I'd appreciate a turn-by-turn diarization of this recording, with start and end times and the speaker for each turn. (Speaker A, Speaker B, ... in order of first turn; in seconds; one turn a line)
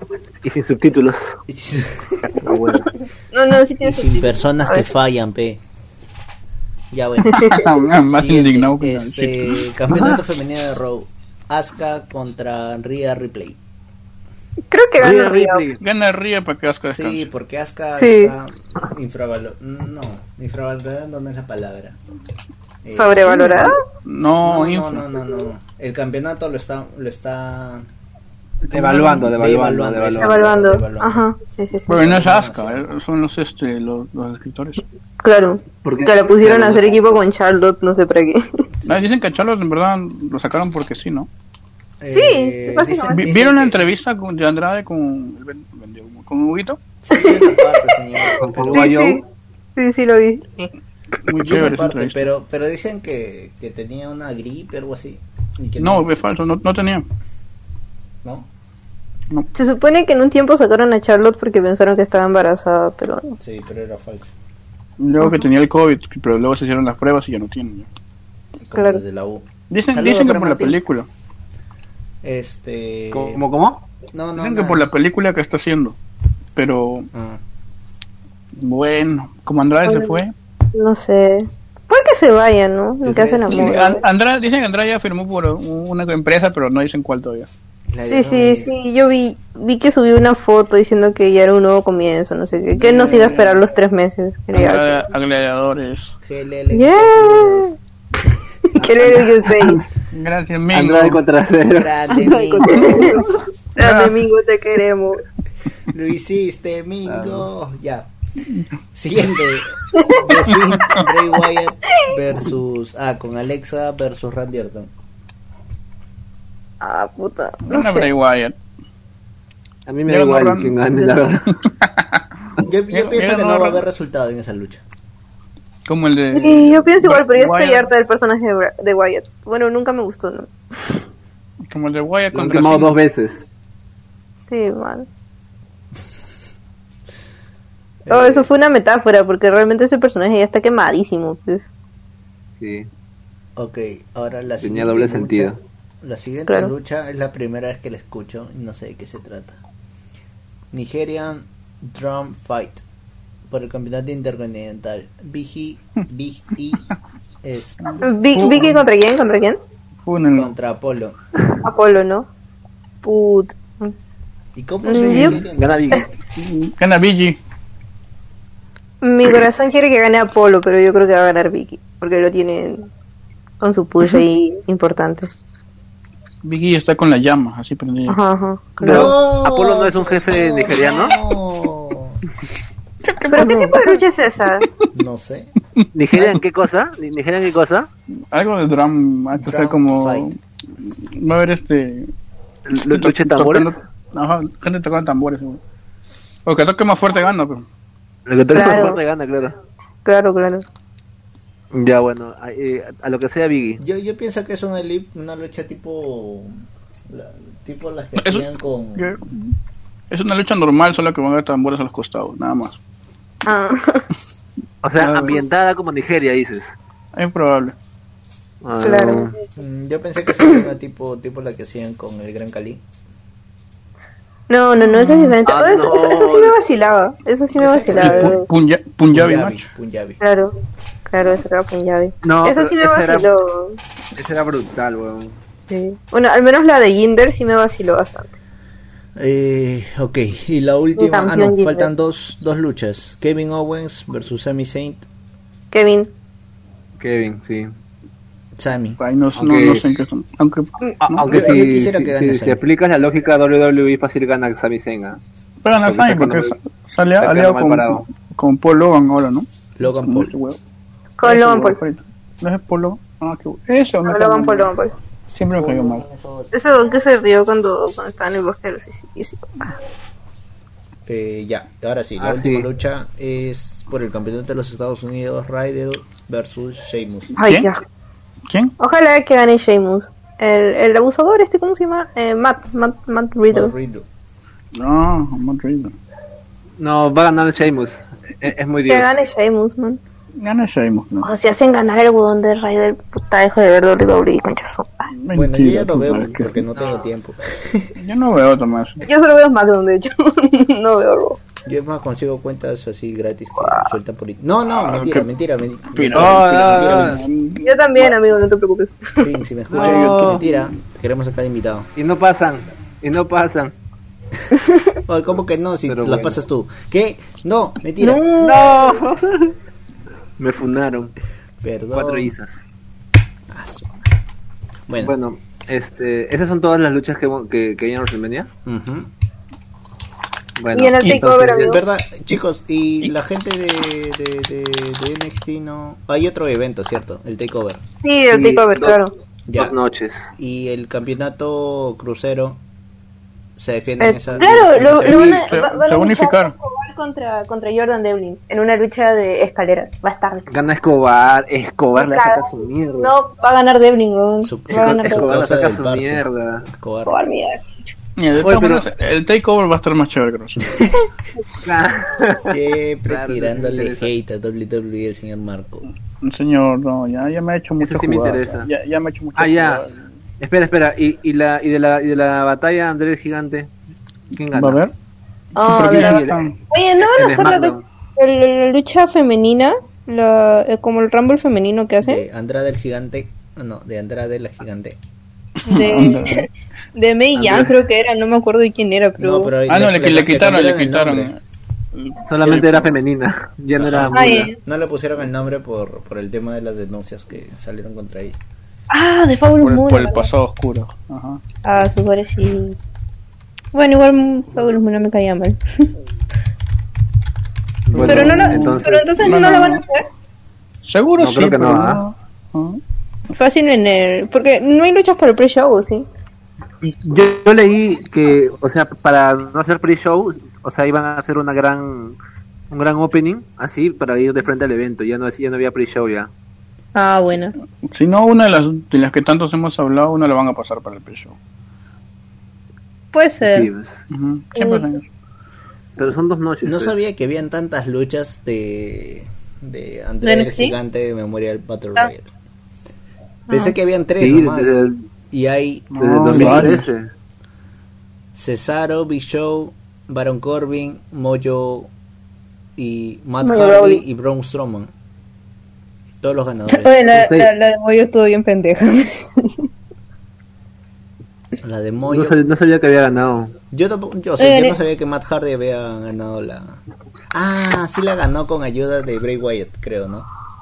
Speaker A: 0.4-1.4
Speaker B: 1.5-2.6
Speaker A: 2.4-2.9
Speaker C: 3.3-4.9
Speaker B: 3.8-5.6
Speaker B: 6.9-13.6
Speaker C: 7.3-7.6
Speaker D: 7.4-9.7
Speaker A: 9.9-10.2
Speaker C: 14.7-15.6
Speaker A: 15.0-15.8
Speaker D: 15.8-17.3
Speaker B: 16.9-22.0
Speaker C: 18.0-18.3
Speaker B: 22.9-23.7
Speaker C: 22.9-23.8
Speaker D: 24.0-25.1
Speaker B: 24.4-27.9
Speaker D: 28.6-29.3
Speaker A: 28.7-30.5
Speaker B: 29.3-31.3
Speaker C: 30.2-31.9
Speaker B: 31.9-32.9
Speaker D: 31.9-34.8
Speaker C: 35.2-38.4
Speaker A: 35.8-36.9
Speaker B: 38.8-39.1
Speaker D: 38.9-41.3
Speaker B: 42.0-43.9
Speaker C: 42.1-43.3
Speaker D: 43.1-46.8
Speaker B: 47.0-49.0
Speaker C: 47.1-49.2
Speaker A: 48.4-49.2
Speaker C: 49.8-50.7
Speaker D: 51.3-52.3
Speaker B: 51.3-56.1
Speaker D: 55.8-57.1
Speaker B: 58.2-58.5
Speaker C: 59.5-63.4
Speaker B: 63.4-64.3
Speaker D: 65.0-67.9
Speaker B: 68.6-70.8
Speaker C: 68.8-69.0
Speaker D: 69.7-71.1
Speaker B: 72.2-73.4
Speaker A: 73.1-73.8
Speaker B: 74.1-74.9
Speaker D: 74.4-76.0
Speaker D: 76.6-77.1
Speaker B: 77.1-77.4
Speaker D: 78.6-80.3
Speaker C: 79.8-80.2
Speaker C: 80.7-84.0
Speaker B: 83.0-84.0
Speaker D: 83.5-87.5
Speaker B: 87.9-88.7
Speaker C: 88.0-95.1
Speaker D: 92.8-93.6
Speaker D: 94.5-96.1
Speaker B: 96.2-97.7
Speaker C: 96.7-97.8
Speaker C: 98.8-99.8
Speaker A: 98.8-99.8
Speaker D: 100.1-101.2
Speaker A: 100.7-101.9
Speaker B: 101.7-103.2
Speaker C: 102.5-103.2
Speaker A: 102.5-102.8
Speaker C: 103.8-105.2
Speaker D: 103.8-104.2
Speaker B: 105.9-108.1
Speaker A: 107.0-107.5
Speaker B: 108.9-114.9
Speaker C: 110.0-110.3
Speaker C: 116.8-118.1
Speaker D: 117.7-118.5
Speaker A: 119.9-121.5
Speaker D: 120.1-122.2
Speaker B: 122.7-124.8
Speaker D: 122.9-123.8
Speaker D: 125.9-127.9
Speaker C: 126.3-131.0
Speaker D: 131.7-133.0
Speaker A: 132.3-133.5
Speaker C: 134.4-135.1
Speaker B: 138.1-138.5
Speaker C: 138.1-141.7
Speaker A: 142.6-142.9
Speaker B: 143.6-149.6
Speaker A: 144.6-145.6
Speaker C: 146.5-146.7
Speaker B: 150.7-152.8
Speaker B: 153.5-156.9
Speaker B: 157.4-158.0
Speaker D: 157.8-158.8
Speaker C: 158.0-159.6
Speaker D: 160.0-160.5
Speaker B: 160.3-161.2
Speaker C: 161.6-162.3
Speaker C: 163.0-163.9
Speaker B: 164.6-166.0
Speaker C: 164.8-165.4
Speaker A: 165.0-166.1
Speaker D: 166.4-167.4
Speaker C: 169.0-172.9
Speaker C: 173.6-175.3
Speaker D: 176.4-178.2
Speaker C: 178.1-179.1
Speaker D: 178.8-179.1
Speaker B: 178.8-182.2
Speaker A: 179.4-181.2
Speaker D: 183.1-184.0
Speaker C: 183.3-184.7
Speaker B: 184.9-185.6
Speaker D: 185.8-186.4
Speaker A: 185.9-187.9
Speaker D: 188.3-192.1
Speaker B: 189.3-190.3
Speaker A: 192.7-193.8
Speaker D: 192.8-195.6
Speaker D: 196.5-197.6
Speaker A: 198.3-199.6
Speaker C: 198.5-199.0
Speaker C: 200.1-200.7
Speaker A: 201.7-203.8
Speaker B: 203.8-209.2
Speaker D: 208.2-209.6
Speaker D: 210.1-212.8
Speaker C: 213.5-214.1
Speaker A: 214.8-216.8
Speaker D: 215.0-215.4
Speaker D: 217.2-217.8
Speaker A: 218.6-219.3
Speaker C: 218.8-219.4
Speaker B: 219.6-222.8
Speaker C: 224.5-228.5
Speaker D: 224.8-225.4
Speaker A: 225.4-226.6
Speaker B: 227.5-228.4
Speaker D: 228.0-229.7
Speaker B: 229.1-230.2
Speaker C: 230.2-230.6
Speaker C: 231.1-233.8
Speaker A: 232.2-233.3
Speaker A: 234.2-235.4
Speaker C: 235.7-238.3
Speaker B: 239.2-245.1
Speaker C: 241.0-241.9
Speaker C: 245.7-246.1
Speaker A: 247.0-247.7
Speaker B: 248.6-249.0
Speaker D: 249.0-251.2
Speaker A: 249.4-249.8
Speaker A: 251.1-255.2
Speaker B: 251.3-252.6
Speaker D: 255.6-260.6
Speaker A: 255.8-256.6
Speaker A: 257.2-258.1
Speaker B: 259.8-260.3
Speaker C: 261.2-261.8
Speaker D: 261.2-264.7
Speaker C: 264.1-264.9
Speaker D: 265.3-266.0
Speaker B: 265.5-266.6
Speaker C: 266.5-269.7
Speaker B: 271.1-277.4
Speaker A: 272.2-272.7
Speaker C: 277.4-277.8
Speaker D: 277.4-277.7
Speaker D: 278.5-278.7
Speaker C: 278.8-283.7
Speaker B: 283.5-284.1
Speaker D: 284.8-285.9
Speaker A: 286.8-289.1
Speaker C: 288.9-290.0
Speaker D: 290.4-291.3
Speaker C: 291.2-295.1
Speaker D: 295.2-296.6
Speaker B: 295.3-297.9
Speaker A: 296.8-297.1
Speaker D: 298.0-299.1
Speaker C: 299.1-301.4
Speaker B: 301.6-307.2
Speaker C: 303.6-303.9
Speaker D: 304.7-305.3
Speaker D: 305.9-308.1
Speaker A: 306.1-307.2
Speaker C: 307.6-309.3
Speaker B: 309.2-311.9
Speaker A: 309.7-310.4
Speaker D: 309.8-310.4
Speaker A: 312.0-313.7
Speaker C: 314.5-314.9
Speaker B: 315.1-318.2
Speaker A: 315.9-316.4
Speaker C: 318.0-319.0
Speaker A: 318.4-319.5
Speaker A: 320.4-321.1
Speaker B: 321.6-322.4
Speaker A: 321.9-322.6
Speaker B: 323.5-324.1
Speaker B: 324.9-325.1
Speaker A: 325.0-328.5
Speaker B: 328.6-329.1
Speaker A: 330.6-331.8
Speaker C: 330.7-331.8
Speaker B: 331.7-337.8
Speaker C: 338.0-339.1
Speaker A: 338.3-339.0
Speaker B: 339.5-339.8
Speaker A: 339.6-340.3
Speaker B: 340.4-342.6
Speaker B: 343.6-345.5
Speaker C: 344.0-350.5
Speaker D: 345.0-346.5
Speaker A: 350.5-353.1
Speaker C: 352.0-352.4
Speaker C: 353.0-355.3
Speaker B: 354.4-357.2
Speaker A: 354.7-356.7
Speaker C: 357.1-357.6
Speaker D: 358.2-360.9
Speaker A: 358.4-358.9
Speaker A: 361.6-364.1
Speaker B: 362.4-365.9
Speaker D: 366.2-370.0
Speaker A: 367.8-368.7
Speaker A: 369.4-369.8
Speaker A: 370.4-373.7
Speaker A: 374.3-374.8
Speaker D: 374.5-374.9
Speaker C: 375.6-382.2
Speaker D: 375.6-376.5
Speaker A: 375.7-376.5
Speaker A: 377.1-377.9
Speaker B: 382.0-385.0
Speaker C: 385.7-389.5
Speaker D: 385.7-386.4
Speaker A: 387.4-387.7
Speaker B: 389.2-391.3
Speaker D: 389.7-391.4
Speaker D: 391.9-392.9
Speaker A: 392.3-394.5
Speaker B: 393.7-398.4
Speaker C: 394.1-394.6
Speaker C: 398.9-400.3
Speaker D: 399.6-401.4
Speaker C: 401.6-402.8
Speaker C: 403.7-405.9
Speaker A: 407.9-409.0
Speaker D: 407.9-409.8
Speaker C: 408.0-410.1
Speaker D: 410.9-412.8
Speaker A: 411.2-412.0
Speaker C: 413.3-416.1
Speaker A: 416.8-422.2
Speaker A: 422.7-426.3
Speaker C: 426.9-427.6
Speaker D: 427.8-431.4
Speaker C: 433.1-433.7
Speaker A: 433.4-434.0
Speaker D: 434.1-435.0
Speaker C: 434.6-434.9
Speaker A: 436.0-436.9
Speaker B: 436.6-442.3
Speaker C: 440.2-440.8
Speaker C: 443.5-443.8
Speaker B: 443.5-444.8
Speaker A: 444.2-445.0
Speaker B: 445.3-446.8
Speaker D: 445.9-446.9
Speaker A: 446.0-447.1
Speaker B: 448.4-451.9
Speaker B: 452.8-454.9
Speaker C: 453.4-454.0
Speaker B: 456.2-457.0
Speaker C: 456.7-459.7
Speaker A: 457.1-457.5
Speaker B: 461.6-462.4
Speaker A: 462.1-463.6
Speaker B: 463.7-466.8
Speaker C: 464.4-464.8
Speaker B: 467.3-470.3